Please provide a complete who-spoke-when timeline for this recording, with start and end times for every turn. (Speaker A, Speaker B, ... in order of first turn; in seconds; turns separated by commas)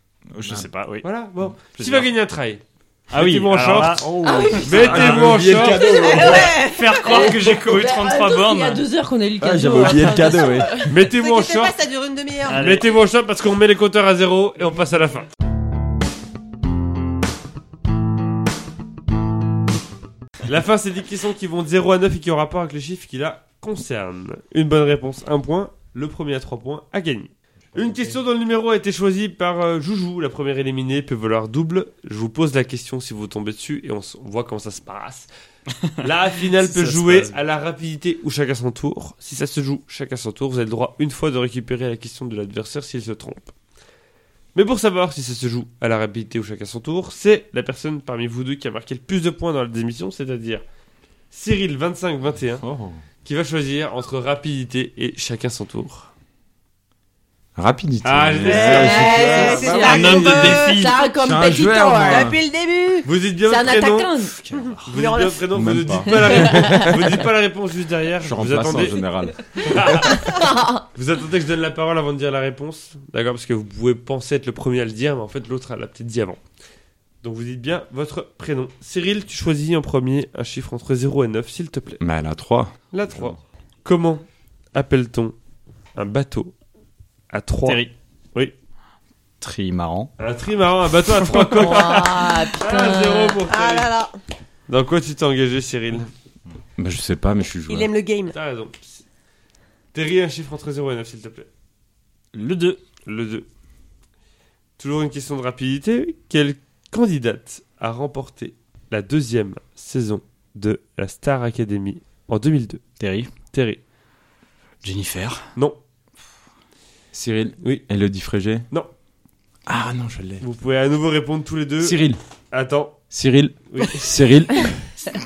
Speaker A: 0.3-0.7, Speaker B: 0.3-1.1, Speaker C: 1.0-6.4, Speaker B: 1.6-2.1, Speaker B: 3.1-5.4, Speaker A: 4.0-6.5, Speaker D: 4.2-5.1, Speaker E: 5.7-7.4, Speaker D: 5.8-6.3, Speaker B: 6.2-8.8, Speaker D: 7.0-10.9, Speaker A: 9.4-10.9, Speaker C: 10.9-11.8, Speaker E: 10.9-12.9, Speaker B: 12.4-13.0, Speaker C: 12.5-15.3, Speaker C: 20.4-35.3, Speaker C: 36.0-43.5, Speaker B: 36.7-37.3, Speaker C: 44.5-50.6, Speaker C: 51.3-52.6, Speaker A: 52.6-53.0, Speaker C: 53.2-56.1, Speaker A: 57.5-62.4, Speaker C: 58.0-59.7, Speaker E: 58.4-63.1, Speaker D: 58.7-61.7, Speaker B: 59.8-61.0, Speaker C: 63.0-64.2, Speaker D: 63.5-64.4, Speaker B: 64.2-64.9, Speaker E: 64.5-65.4, Speaker C: 64.9-69.0, Speaker A: 65.5-67.1, Speaker D: 66.1-66.9, Speaker A: 68.2-70.2, Speaker C: 69.6-76.4, Speaker D: 70.1-70.8, Speaker C: 77.2-82.0, Speaker A: 82.0-83.4, Speaker C: 82.9-85.3, Speaker C: 86.0-86.5, Speaker C: 87.3-87.8, Speaker B: 87.6-87.9, Speaker B: 89.4-90.1, Speaker C: 90.2-93.9, Speaker D: 91.5-93.4, Speaker E: 93.5-94.2, Speaker C: 94.7-96.1, Speaker A: 96.8-97.9, Speaker E: 97.7-98.3, Speaker C: 98.3-99.0, Speaker C: 99.9-101.5, Speaker B: 102.3-102.8, Speaker C: 103.0-103.5, Speaker C: 104.8-112.8, Speaker B: 113.0-113.3, Speaker C: 113.5-113.8, Speaker B: 114.8-115.5, Speaker A: 117.1-118.7, Speaker C: 117.6-117.9, Speaker A: 119.7-120.4, Speaker C: 120.4-123.0, Speaker A: 121.8-122.2, Speaker A: 123.1-124.8, Speaker C: 123.7-124.1